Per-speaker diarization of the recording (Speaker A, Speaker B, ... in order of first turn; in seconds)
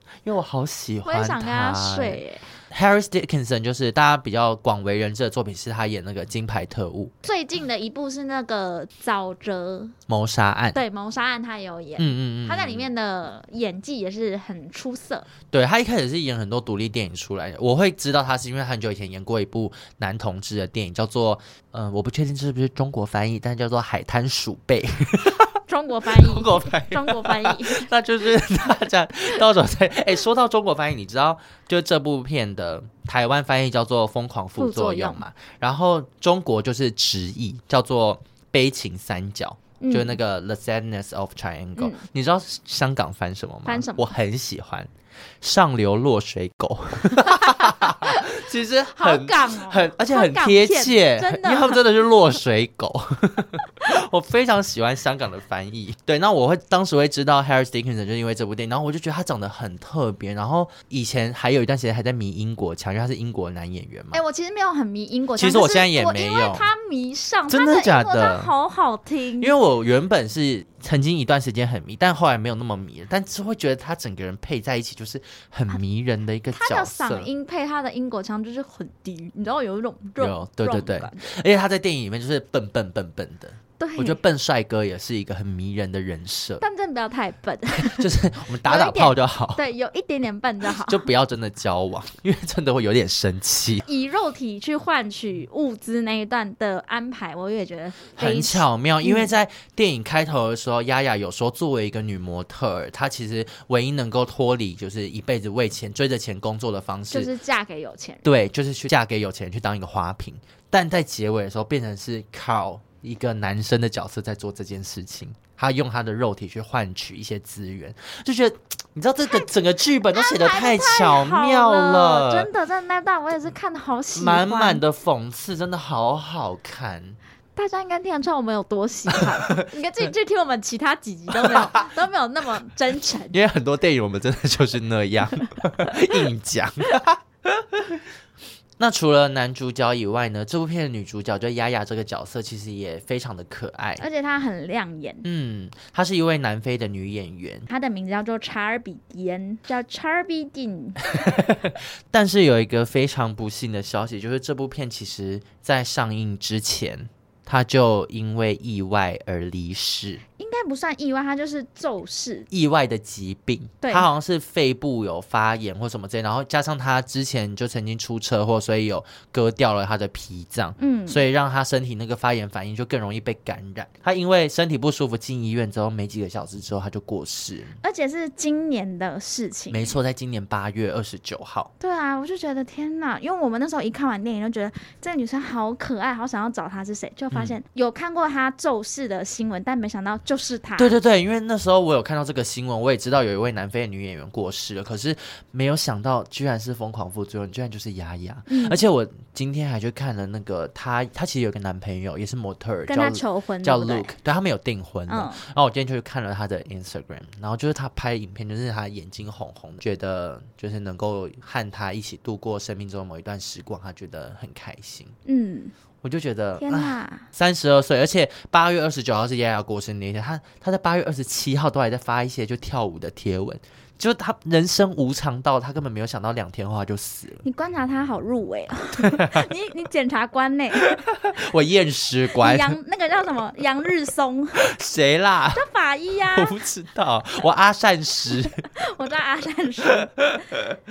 Speaker A: 0.2-7.1, 10.1-10.8, 12.0-12.9, 15.5-25.5, 26.1-44.9, 45.4-64.2, 65.4-66.7, 67.5-68.5, 69.4-77.3, 80.2-86.6, 87.8-89.6, 90.8-93.9, 98.2-107.3, 108.2-122.5, 124.2-127.2, 129.1-129.7, 131.3-131.9, 133.3-138.0, 138.8-144.0, 145.2-147.7, 151.1-160.2, 162.5-177.8, 179.7-181.7, 190.8-215.2, 216.0-227.4, 229.0-229.5, 230.8-232.8, 234.6-235.6, 236.3-238.7
Speaker B: 1.1-2.5, 7.2-9.9, 10.7-15.3, 25.3-27.9, 34.6-35.2, 39.8-40.2, 41.8-42.0, 43.6-44.1, 47.1-48.4, 48.9-51.8, 64.1-69.5, 76.5-81.3, 83.8-84.2, 86.6-88.1, 88.7-91.1, 93.9-99.3, 107.1-108.2, 120.1-124.8, 127.6-133.4, 144.0-145.3, 147.7-151.1, 160.4-162.5, 163.8-164.1, 170.8-171.3, 177.8-179.9, 181.8-191.0, 198.5-198.8, 202.9-204.1, 205.1-205.4, 215.3-215.7, 216.6-217.3, 227.4-231.0, 232.3-234.7, 235.5-236.6, 238.7-240.2